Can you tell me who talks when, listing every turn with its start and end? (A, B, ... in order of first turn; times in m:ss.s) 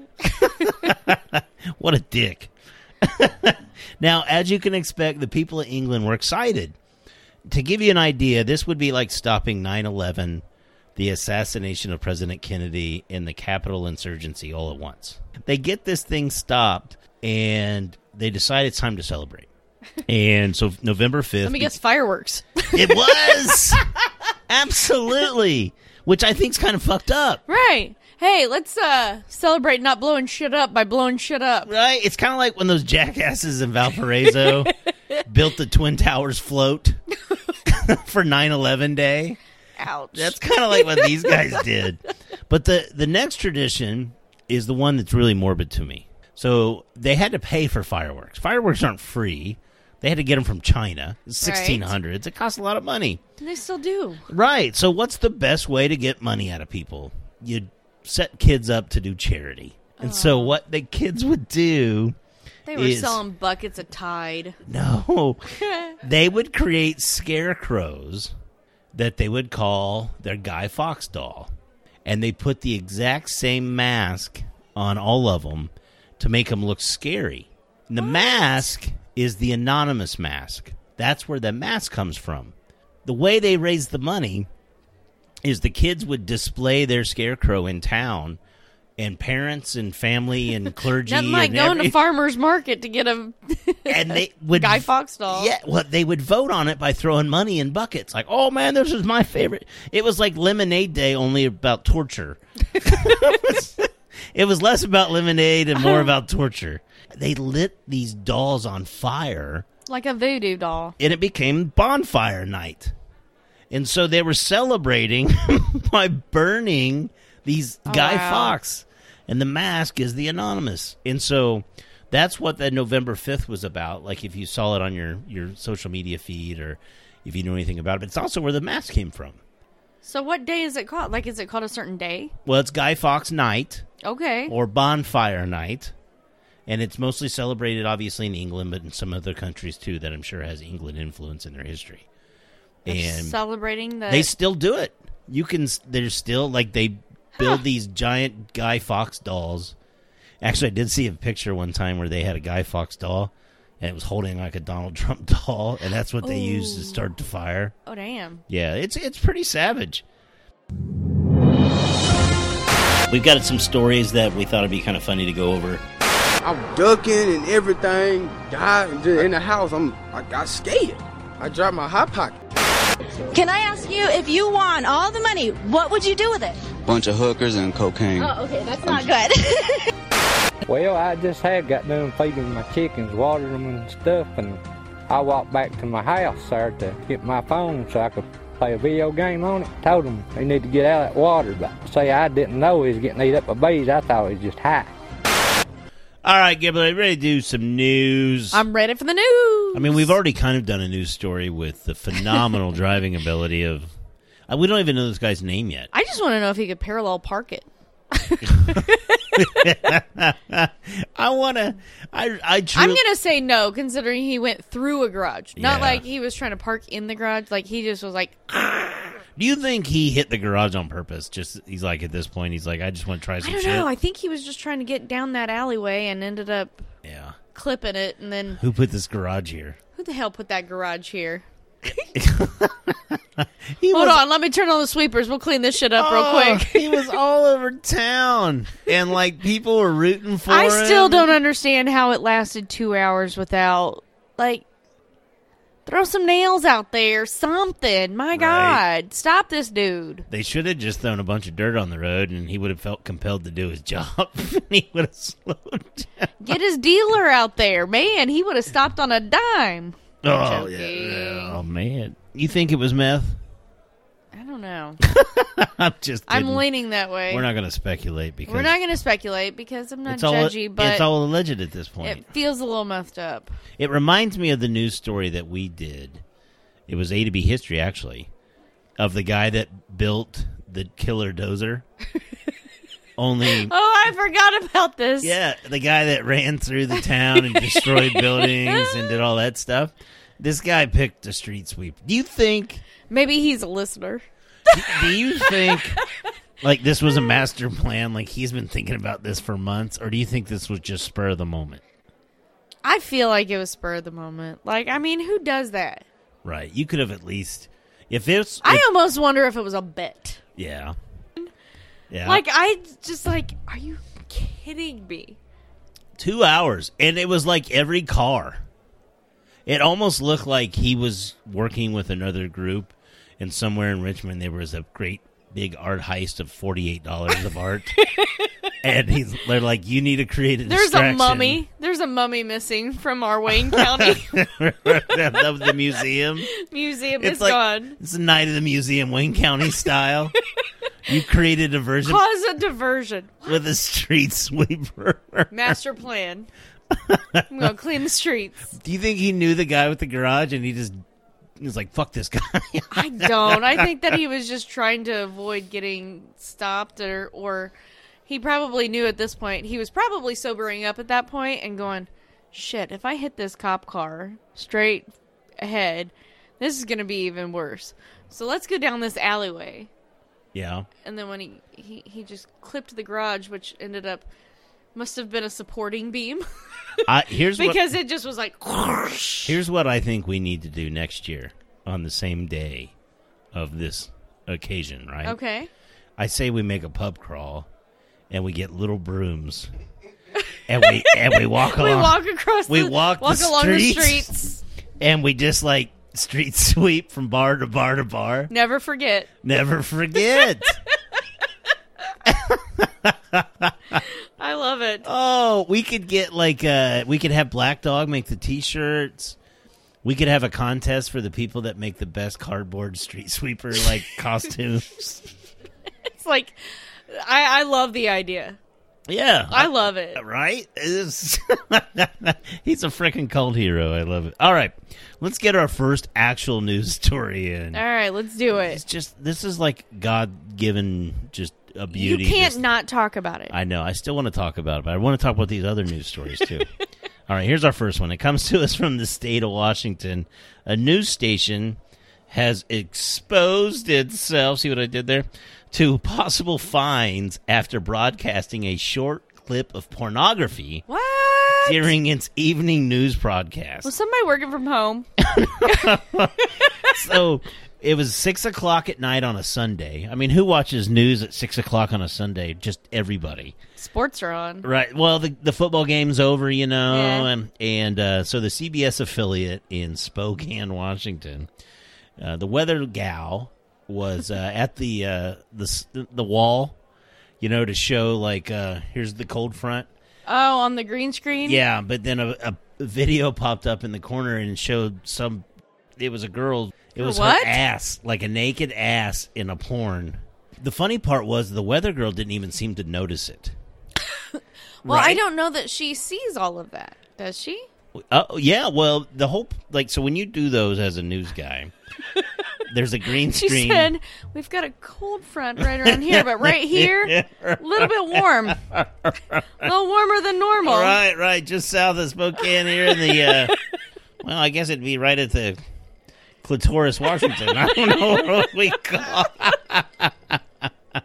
0:00.2-0:02.5 A
0:03.0-0:06.8 A
0:07.5-0:10.4 A
0:11.0-0:19.5 A
0:20.0-0:21.7 A
0:21.4-0:23.8 B
0:22.7-0:23.9 A
0:24.5-0:27.4 A
0:27.5-0:31.7 B
0:31.6-0:34.7 A
0:34.3-0:34.7 B
0:35.2-0:37.0 A
0:37.6-0:39.4 A
0:39.8-0:41.6 B
0:40.1-0:53.2 A
0:51.4-0:51.9 B
0:53.4-0:54.3 B
0:54.3-1:02.2 A
1:00.0-1:00.5 B
1:02.6-1:04.6 B
1:02.7-1:03.2 A
1:04.6-1:05.4 A
1:05.6-1:06.0 B
1:06.0-1:08.3 A
1:08.9-1:11.5 A
1:12.0-1:22.5 A
1:18.0-1:18.7 B
1:23.0-1:24.5 A
1:25.4-1:28.4 A
1:29.0-1:32.0 A
1:30.9-1:35.5 B
1:33.9-1:49.6 A
1:45.8-1:46.1 B
1:49.9-1:50.9 B
1:51.0-1:52.9 A
1:53.7-2:09.4 A
1:57.9-1:58.5 B
2:10.0-2:12.3 B
2:12.4-2:13.9 A
2:14.0-2:14.5 B
2:14.5-2:15.9 A
2:16.7-2:22.0 A
2:22.8-2:23.4 A
2:22.9-2:24.3 B
2:24.1-2:29.7 A
2:30.4-2:37.7 A
2:36.2-2:37.0 B
2:37.8-2:38.4 B
2:38.5-2:40.0 A
2:43.1-2:45.8 A
2:46.4-2:52.4 C
2:53.3-2:56.6 D
2:56.8-2:59.0 E
2:58.2-2:59.9 D
3:00.7-3:14.9 F
3:16.2-3:18.6 A
3:18.5-3:20.1 B
3:19.7-3:23.9 A
3:22.1-3:22.5 B
3:24.5-3:25.9 A
3:25.9-3:29.7 B
3:28.4-3:28.8 A
3:29.4-3:33.0 A
3:32.7-3:39.2 B
3:35.6-3:36.0 A
3:39.4-3:43.9 A
3:43.4-3:46.8 B
3:47.0-3:47.4 A
3:47.5-3:48.6 B
3:48.6-3:49.8 A
3:49.9-3:52.0 B
3:52.1-3:54.2 A
3:53.9-3:57.2 B
3:55.9-4:01.4 A
4:00.5-4:04.6 B
4:05.8-4:10.3 B
4:08.3-4:08.8 A
4:10.3-4:16.3 A
4:16.4-4:21.6 B
4:20.2-4:23.4 A
4:24.3-4:25.0 B
4:25.0-4:26.6 A
4:26.3-4:27.5 B
4:27.3-4:28.8 A
4:28.5-4:31.1 B
4:30.1-4:32.3 A
4:32.0-4:33.5 B
4:33.8-4:36.2 A
4:36.9-4:38.3 A
4:39.0-4:41.8 A
4:43.2-4:43.7 A
4:43.5-4:45.4 B
4:45.2-4:52.8 A
4:47.4-4:49.2 B
4:53.1-4:56.0 B
4:54.7-4:56.0 A
4:56.6-5:01.8 A
5:02.8-5:06.0 B
5:06.4-5:08.9 A
5:08.6-5:10.4 B
5:10.6-5:11.0 A
5:12.1-5:12.4 A
5:12.2-5:15.4 B
5:16.2-5:18.6 A
5:19.6-5:28.0 A
5:28.0-5:28.5 B
5:28.8-5:31.6 A
5:30.6-5:34.4 B
5:33.7-5:36.5 A
5:36.4-5:38.0 B
5:37.2-5:40.3 A
5:41.0-5:42.2 A
5:42.0-5:43.6 B
5:43.4-5:45.8 A
5:45.5-5:46.5 B
5:46.9-5:47.5 A
5:47.5-5:48.7 B
5:48.7-5:51.0 A
5:51.6-5:53.9 A
5:52.9-5:57.7 B
5:58.3-6:05.1 B
6:05.6-6:09.9 B
6:10.5-6:10.9 A
6:11.0-6:14.2 B
6:14.9-6:16.4 B
6:17.0-6:17.9 A
6:17.5-6:19.6 B
6:19.4-6:22.9 A
6:23.5-6:25.4 A
6:25.2-6:25.7 B
6:26.2-6:27.7 A
6:28.3-6:29.7 A
6:30.7-6:34.4 A
6:30.8-6:34.6 B
6:35.0-6:38.5 A
6:38.5-6:39.3 B
6:39.4-6:40.8 A
6:40.3-6:40.6 B
6:42.2-6:44.0 A
6:44.0-6:45.1 B
6:45.0-6:49.4 A
6:50.0-6:55.3 A
6:56.1-6:56.6 B
6:57.1-6:58.6 B
6:59.1-7:07.8 A
6:59.5-7:00.2 B
7:07.7-7:08.8 B
7:08.6-7:12.6 A
7:11.9-7:13.5 B
7:13.5-7:16.7 A
7:17.3-7:21.8 A
7:22.3-7:30.8 A
7:30.9-7:31.9 B
7:31.6-7:33.9 A
7:33.8-7:35.1 B
7:35.2-7:43.5 A
7:35.6-7:36.0 B
7:43.8-7:44.6 B
7:44.6-7:51.5 A
7:46.9-7:47.3 B
7:52.2-7:56.7 A
7:57.4-7:59.9 A
8:00.2-8:01.6 B
8:01.4-8:05.4 A
8:06.0-8:13.5 A
8:07.0-8:07.6 B
8:14.0-8:17.7 B
8:14.8-8:15.2 A
8:18.0-8:21.7 A
8:22.6-8:23.9 A
8:23.2-8:28.6 B
8:25.6-8:29.7 A
8:29.6-8:31.0 B
8:30.6-8:33.5 A
8:32.9-8:33.6 B
8:34.2-8:35.6 A
8:36.4-8:40.4 A
8:37.9-8:38.2 B